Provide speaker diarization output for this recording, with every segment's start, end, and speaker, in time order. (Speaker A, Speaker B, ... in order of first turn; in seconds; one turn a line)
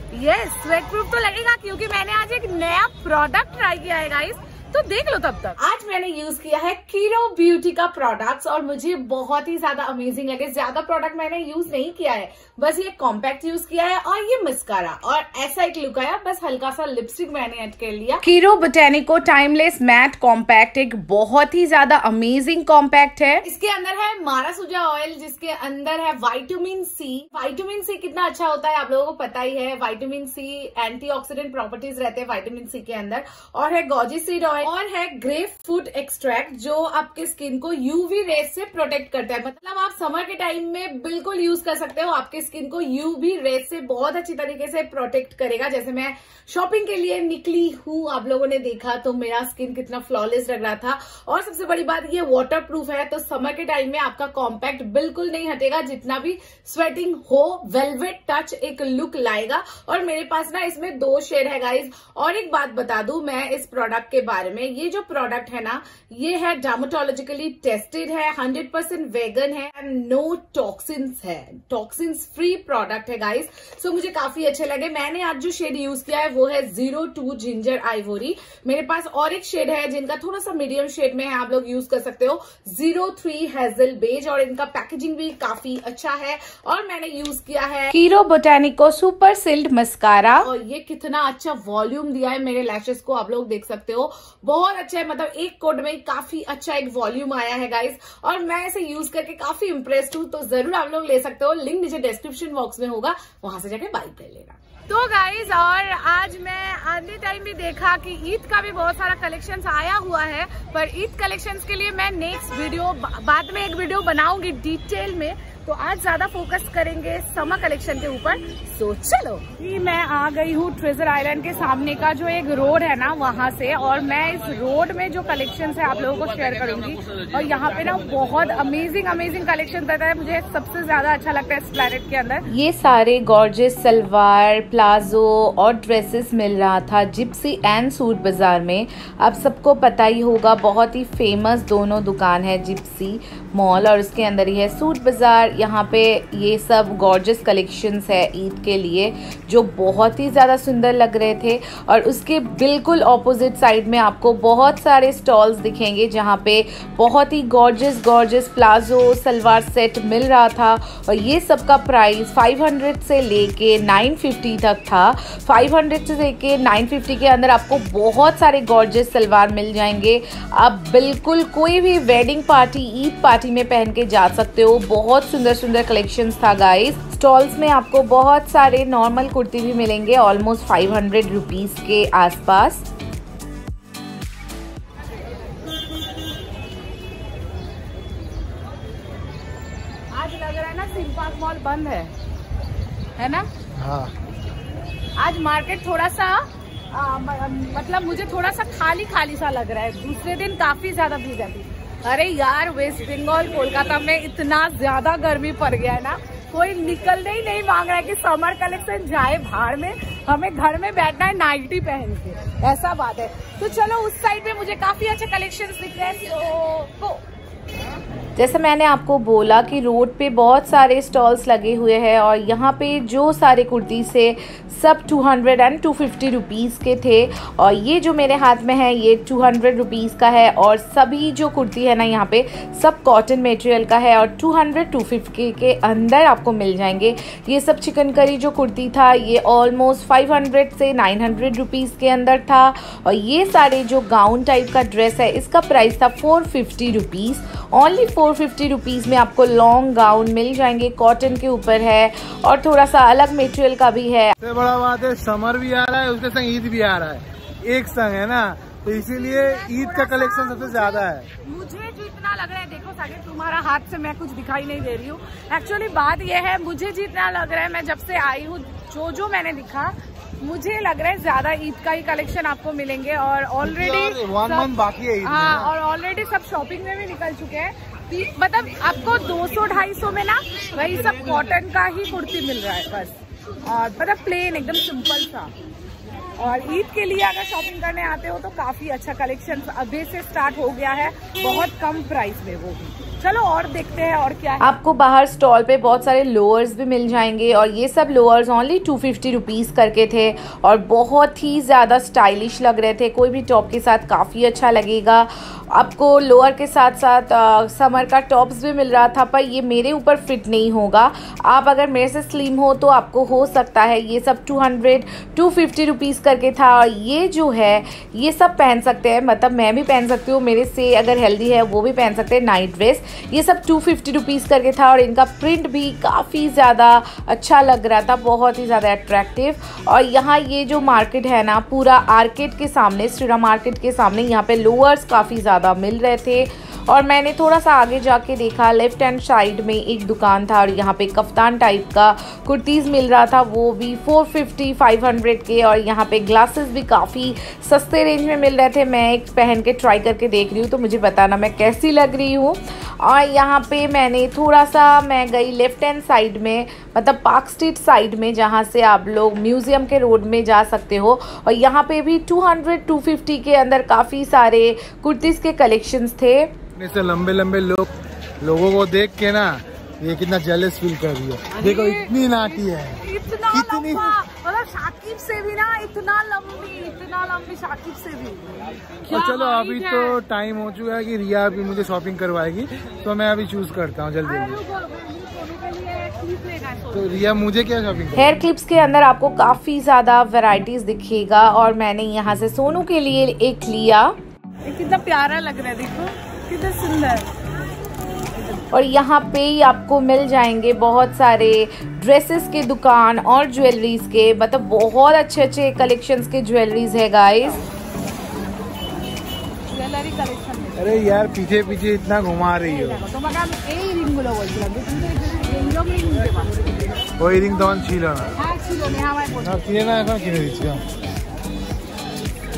Speaker A: 0.1-18.2
Speaker B: 18.2-23.4
Speaker A: 23.4-87.9
Speaker B: 87.9-90.5
Speaker A: 90.4-132.4
Speaker B: 132.5-182.8
Speaker A: 190.1-192.1
Speaker A: 193.2-193.5
Speaker C: 193.7-194.1
Speaker A: 195.2-217.2
Speaker B: 218.4-254.3
Speaker C: 254.4-261.3
Speaker A: 259.0-274.7
Speaker C: 273.6-275.7
Speaker A: 275.2-285.5
Speaker A: 286.4-294.8
Speaker B: 294.6-366.5
Speaker C: 366.8-367.9
Speaker C: 368.4-374.2
Speaker A: 371.5-380.2
Speaker C: 379.1-384.6
Speaker A: 384.2-387.1
Speaker C: 386.9-388.3
Speaker B: 388.2-394.1
Speaker A: 394.6-397.3
Speaker B: 398.7-407.6
Speaker A: 409.7-411.1
Speaker C: 410.8-413.0
Speaker A: 412.7-416.7
Speaker C: 417.2-418.3
Speaker A: 418.4-419.6
Speaker C: 419.4-420.9